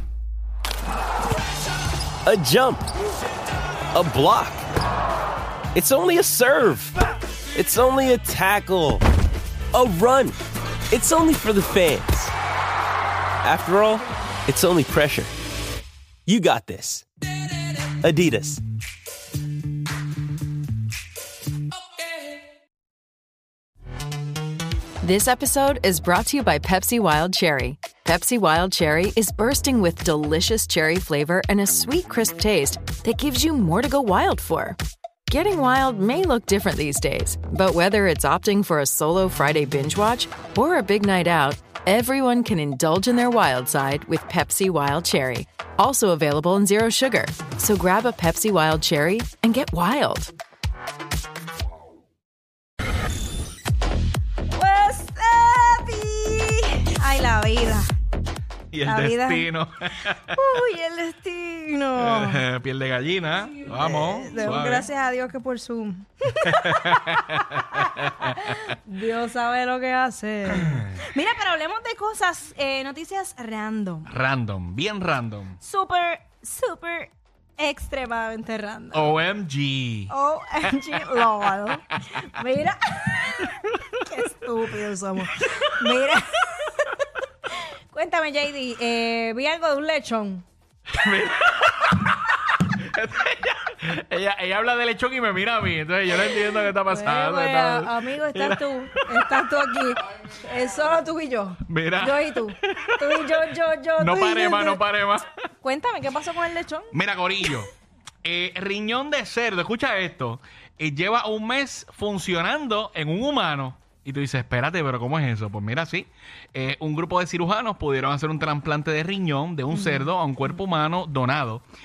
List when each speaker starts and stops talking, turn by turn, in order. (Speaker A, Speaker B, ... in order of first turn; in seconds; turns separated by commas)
Speaker A: 2.2-2.9, Speaker A: 3.9-4.6, Speaker A: 5.7-6.9, Speaker A: 7.5-9.0, Speaker A: 9.7-10.4, Speaker A: 10.9-12.3, Speaker A: 13.4-15.3, Speaker A: 16.2-17.1, Speaker A: 18.0-18.6, Speaker B: 25.0-34.8, Speaker B: 35.3-50.3, Speaker C: 54.5-57.9, Speaker D: 58.7-60.6, Speaker C: 58.8-59.5, Speaker C: 60.0-62.4, Speaker D: 62.0-64.9, Speaker C: 63.8-74.1, Speaker D: 66.4-68.8, Speaker D: 70.5-70.9, Speaker D: 74.1-75.6, Speaker C: 75.6-79.1, Speaker D: 78.9-80.1, Speaker C: 80.1-86.9, Speaker D: 80.6-81.5, Speaker C: 87.9-90.5, Speaker D: 90.9-99.3, Speaker C: 96.2-104.8, Speaker D: 101.7-105.3, Speaker C: 105.6-106.9, Speaker D: 106.9-107.7, Speaker D: 108.2-121.6, Speaker C: 119.7-120.1